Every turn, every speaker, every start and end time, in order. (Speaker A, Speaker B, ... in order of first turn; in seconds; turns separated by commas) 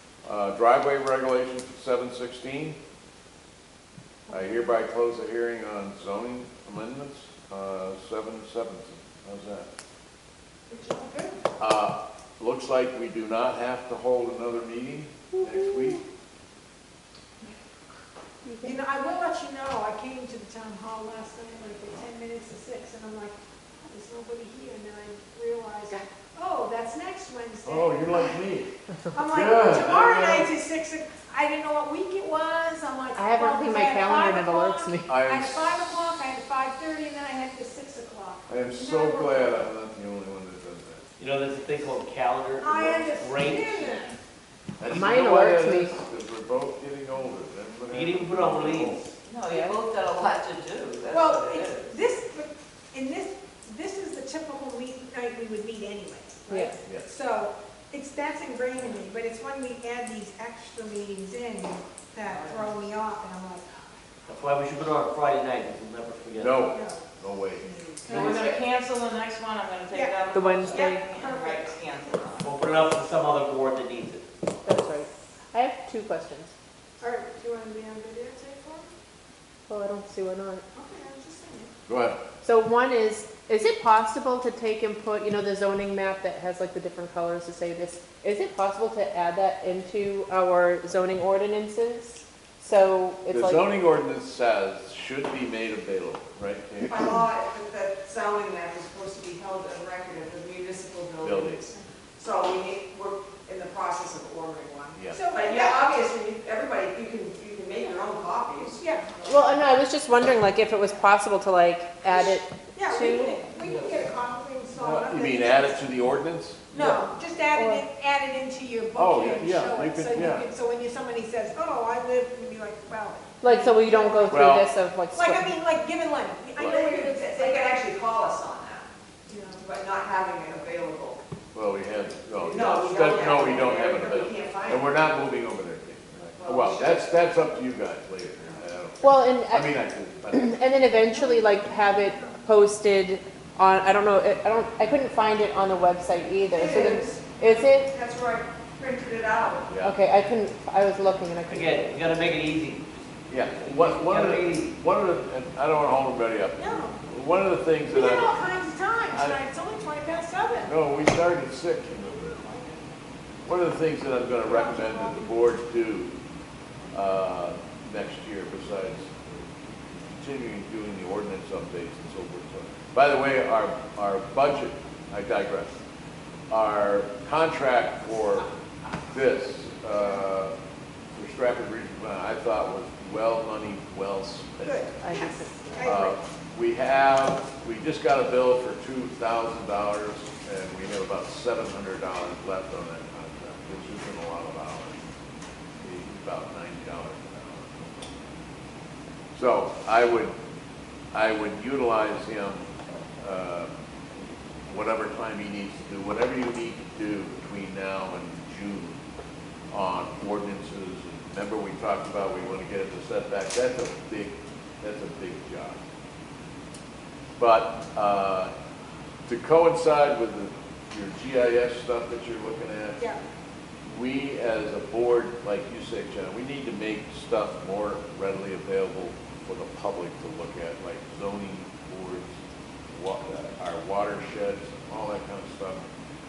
Speaker A: 0.2-2.8, Speaker A: 4.3-9.7, Speaker B: 10.7-11.4, Speaker A: 11.6-16.0, Speaker C: 15.3-16.0, Speaker C: 18.4-18.8, Speaker D: 18.6-28.4, Speaker A: 27.6-30.5, Speaker D: 29.1-39.7, Speaker C: 33.1-35.1, Speaker A: 35.1-36.1, Speaker A: 38.5-41.0, Speaker E: 41.2-44.0, Speaker D: 42.6-44.2, Speaker A: 44.8-49.0, Speaker C: 44.9-46.0, Speaker E: 47.9-49.1, Speaker F: 49.2-51.9, Speaker D: 51.1-63.7, Speaker C: 56.5-56.8, Speaker F: 62.2-62.8, Speaker E: 64.2-66.6, Speaker A: 66.3-68.6, Speaker D: 66.7-67.0, Speaker F: 68.0-72.6, Speaker D: 69.9-71.8, Speaker C: 70.3-71.0, Speaker E: 72.4-74.2, Speaker C: 74.6-76.5, Speaker D: 77.0-78.9, Speaker C: 79.7-80.6, Speaker D: 80.7-81.7, Speaker A: 81.9-82.2, Speaker C: 82.4-93.7, Speaker A: 93.3-97.2, Speaker B: 96.8-108.8, Speaker A: 101.2-101.6, Speaker A: 105.0-105.2, Speaker D: 105.1-105.9, Speaker D: 108.8-109.7, Speaker C: 109.2-113.4, Speaker D: 112.0-115.8, Speaker A: 114.7-116.9, Speaker D: 116.7-124.5, Speaker C: 117.5-117.8, Speaker A: 119.0-120.5, Speaker C: 123.4-125.5, Speaker A: 124.3-124.7, Speaker D: 125.1-127.8, Speaker B: 126.6-128.9, Speaker D: 129.3-129.6, Speaker B: 129.6-131.2, Speaker A: 131.5-140.6, Speaker B: 132.4-134.9, Speaker B: 136.4-137.1, Speaker C: 139.0-147.9, Speaker D: 141.1-142.4, Speaker B: 146.5-147.3, Speaker B: 147.8-149.7, Speaker A: 149.7-150.0, Speaker C: 149.8-152.1, Speaker E: 151.5-154.7, Speaker A: 153.3-158.3, Speaker D: 156.6-157.0, Speaker D: 157.9-160.8, Speaker A: 159.1-159.4, Speaker A: 160.6-162.4, Speaker D: 162.0-162.8, Speaker A: 163.4-166.1, Speaker D: 164.4-165.3, Speaker A: 166.9-175.7, Speaker A: 176.5-178.5, Speaker A: 179.0-180.5, Speaker A: 181.1-184.9, Speaker D: 184.6-186.2, Speaker C: 185.0-185.9, Speaker A: 185.8-195.0, Speaker A: 195.8-198.2, Speaker A: 199.3-200.3, Speaker A: 201.1-202.7, Speaker A: 203.2-203.8, Speaker A: 204.7-209.0, Speaker A: 209.7-215.8, Speaker A: 217.4-218.5, Speaker A: 219.3-223.1, Speaker A: 223.8-232.4, Speaker A: 232.9-235.8